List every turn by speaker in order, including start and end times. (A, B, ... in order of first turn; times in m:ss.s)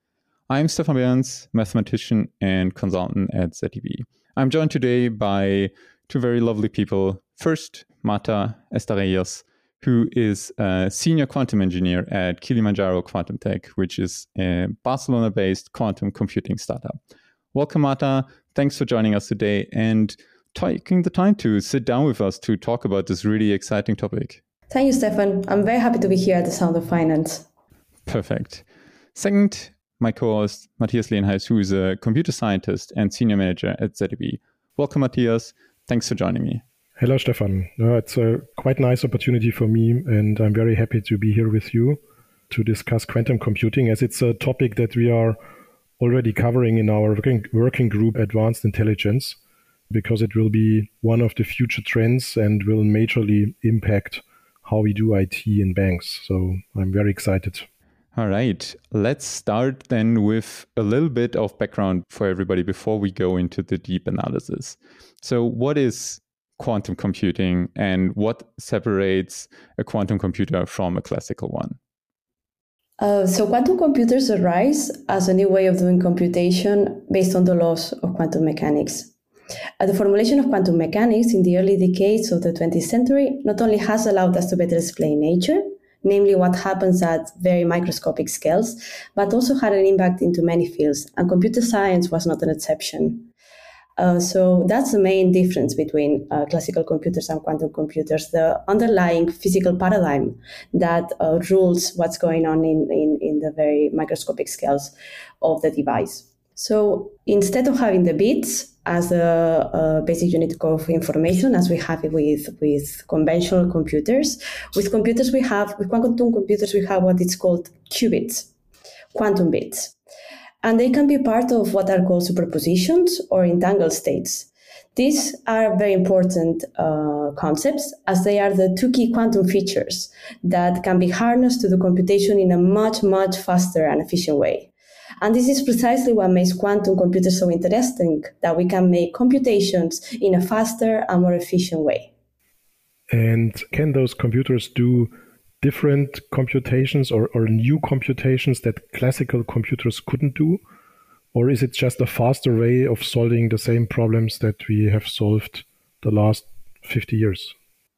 0:00.5-0:17.0 A
0:17.5-0:24.4 A
0:24.7-0:27.4 B
0:28.0-0:36.6 A
0:37.0-0:45.4 C
0:46.0-0:49.4 C
0:49.9-0:57.6 C
0:58.1-1:11.8 A
1:13.0-1:19.1 B
1:19.8-1:33.3 B
1:34.0-1:58.5 B
1:59.1-1:59.9 B
2:00.6-2:22.1 B
2:23.1-2:30.6 C
2:31.3-2:37.5 C